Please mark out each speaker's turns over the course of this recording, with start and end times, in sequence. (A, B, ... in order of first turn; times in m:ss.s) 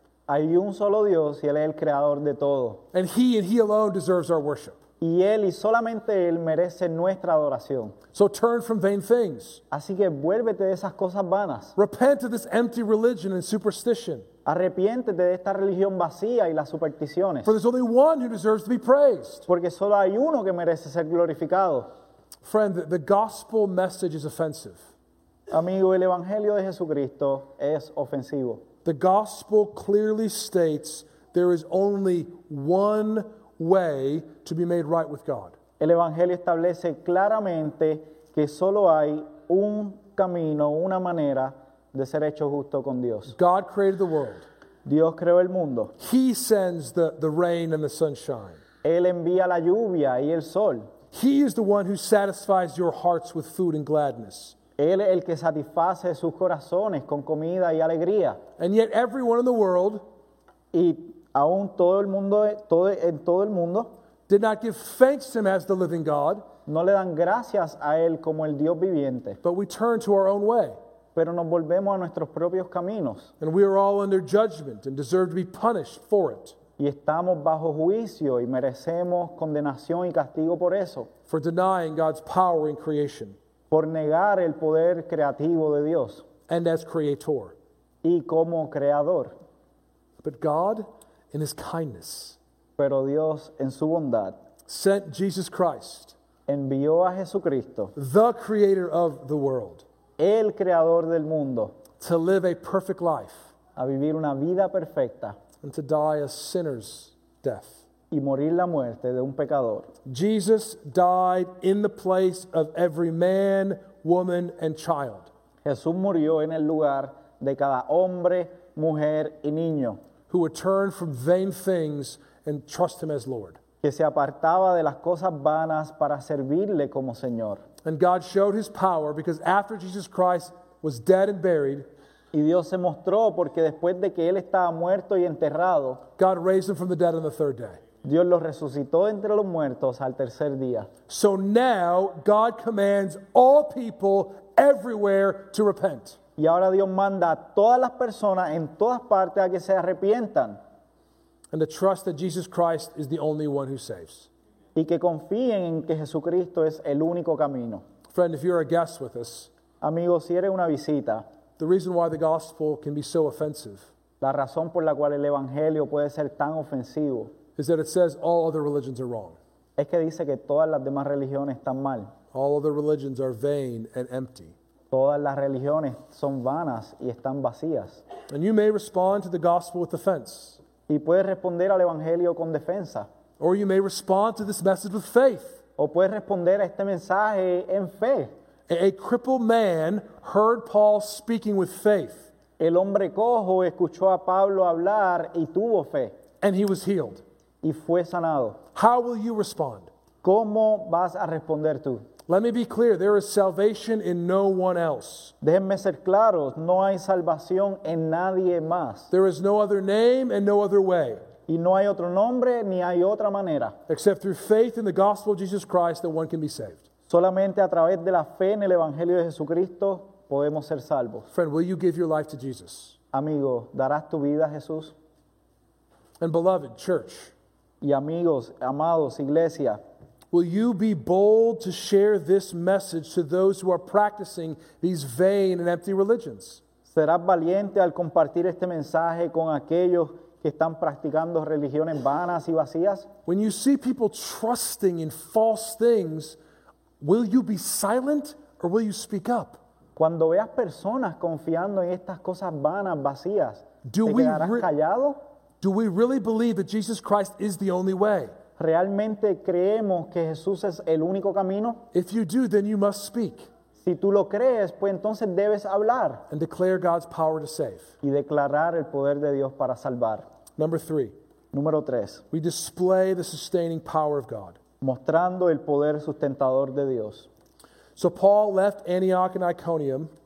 0:00.3-0:02.8 A
0:02.9-0:04.8 B
0:05.0-0:08.0 A
0:08.1-0:09.6 B
0:09.7-0:11.8 A
0:11.8-0:14.3 B
0:14.5-0:17.5 A
0:17.4-0:19.5 B
0:19.5-0:21.9 A
0:22.4-0:24.8 B
0:25.5-0:28.6 A
0:28.8-0:35.6 B
0:35.8-0:43.3 A
0:43.3-0:44.4 B
0:44.8-0:45.9 A
0:46.0-0:48.6 B
0:48.8-0:50.9 A
0:51.1-0:54.6 B
0:54.8-0:58.4 A
0:58.6-1:00.0 B
1:00.7-1:03.9 A
1:04.3-1:06.4 B
1:06.7-1:09.4 A
1:09.4-1:10.8 B
1:11.2-1:13.3 A
1:13.4-1:16.6 B
1:16.8-1:21.1 A
1:21.3-1:23.4 B
1:23.7-1:26.2 A
1:26.5-1:27.6 B
1:28.0-1:29.3 A
1:30.2-1:32.4 B
1:32.8-1:34.4 A
1:34.7-1:36.2 B
1:36.5-1:37.9 A
1:38.0-1:39.8 B
1:40.2-1:41.8 A
1:42.0-1:43.5 B
1:43.8-1:45.4 A
1:45.6-1:47.8 B
1:48.1-1:49.9 A
1:50.1-1:55.3 B
1:55.6-2:00.0 A
2:00.3-2:03.6 B
2:03.8-2:07.6 A
2:07.8-2:11.9 B
2:12.3-2:16.0 A
2:16.2-2:17.8 B
2:18.0-2:20.9 A
2:21.1-2:26.2 B
2:26.4-2:30.6 A
2:31.5-2:34.3 B
2:34.8-2:37.8 A
2:38.1-2:39.5 B
2:39.8-2:41.2 A
2:41.6-2:43.9 B
2:44.2-2:47.4 A
2:47.6-2:49.4 B
2:49.8-2:52.1 A
2:52.3-2:54.6 B
2:54.9-2:58.0 A
2:58.3-3:00.6 B
3:00.9-3:03.1 A
3:03.4-3:05.6 B
3:05.8-3:08.3 A
3:08.7-3:12.3 B
3:12.6-3:16.2 A
3:16.4-3:17.2 B
3:17.6-3:18.6 A
3:18.7-3:19.9 B
3:20.2-3:22.1 A
3:22.3-3:25.3 B
3:25.4-3:29.1 A
3:29.1-3:31.2 B
3:31.5-3:33.8 A
3:33.9-3:36.8 B
3:37.1-3:41.3 A
3:41.3-3:43.0 B
3:43.1-3:45.0 A
3:46.2-3:47.3 B
3:47.8-3:49.8 A
3:50.3-3:56.6 B
3:56.9-4:03.1 A
4:03.3-4:06.4 B
4:07.0-4:09.6 B
4:10.0-4:15.2 A
4:13.8-4:14.7 B
4:15.6-4:18.3 B
4:18.6-4:21.8 A
4:21.9-4:23.5 B
4:23.8-4:26.2 A
4:26.3-4:27.9 B
4:28.0-4:30.2 A
4:30.6-4:31.1 B
4:31.5-4:32.2 A
4:32.3-4:34.6 B
4:34.8-4:37.3 A
4:38.0-4:40.1 B